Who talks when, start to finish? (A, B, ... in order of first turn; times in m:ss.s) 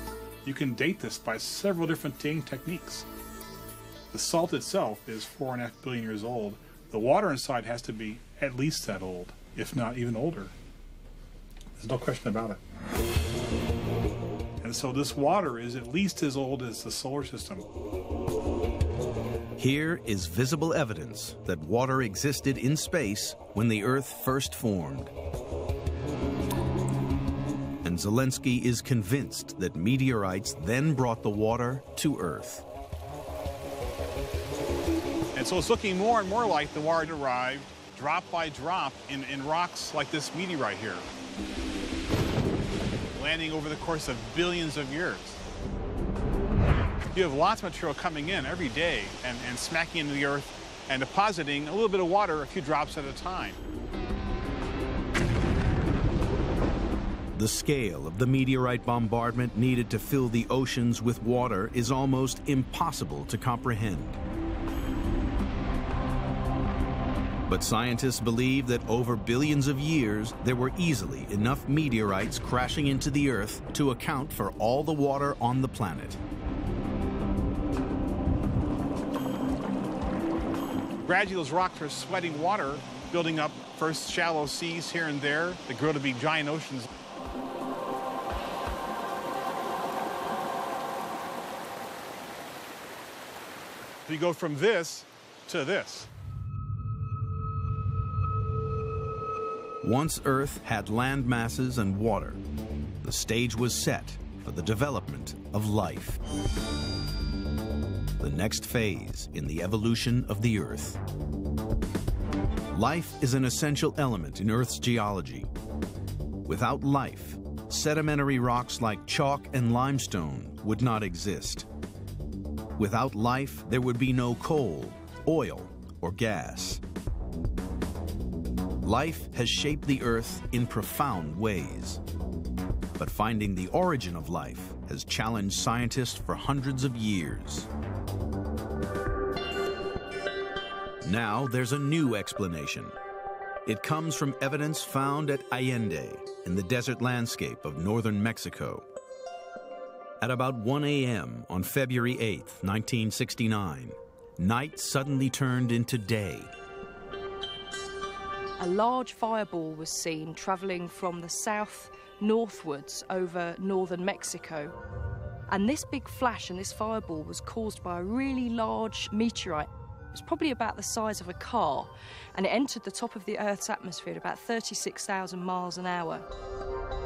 0:00.4-0:03.0 A
0:04.1-0:10.5 A
0:11.8-0:12.6 A
0:14.6-0:17.6 A
0:19.6-0:25.1 B
0:27.8-0:32.6 B
0:35.3-0:41.1 A
0:43.1-0:45.4 A
0:47.1-0:53.6 A
0:57.3-1:04.2 B
1:07.5-1:16.2 B
1:21.0-1:26.8 A
1:34.0-1:36.1 A
1:39.8-1:42.4 B
1:43.0-1:46.2 B
1:48.2-1:51.0 B
1:52.7-1:55.5 B
1:56.4-2:01.7 B
2:02.8-2:06.8 B
2:08.8-2:12.0 B
2:13.0-2:17.7 B
2:21.0-2:23.0 B
2:23.6-2:28.8 B
2:30.2-2:36.5 B
2:38.6-2:44.7 C
2:45.5-2:56.2 C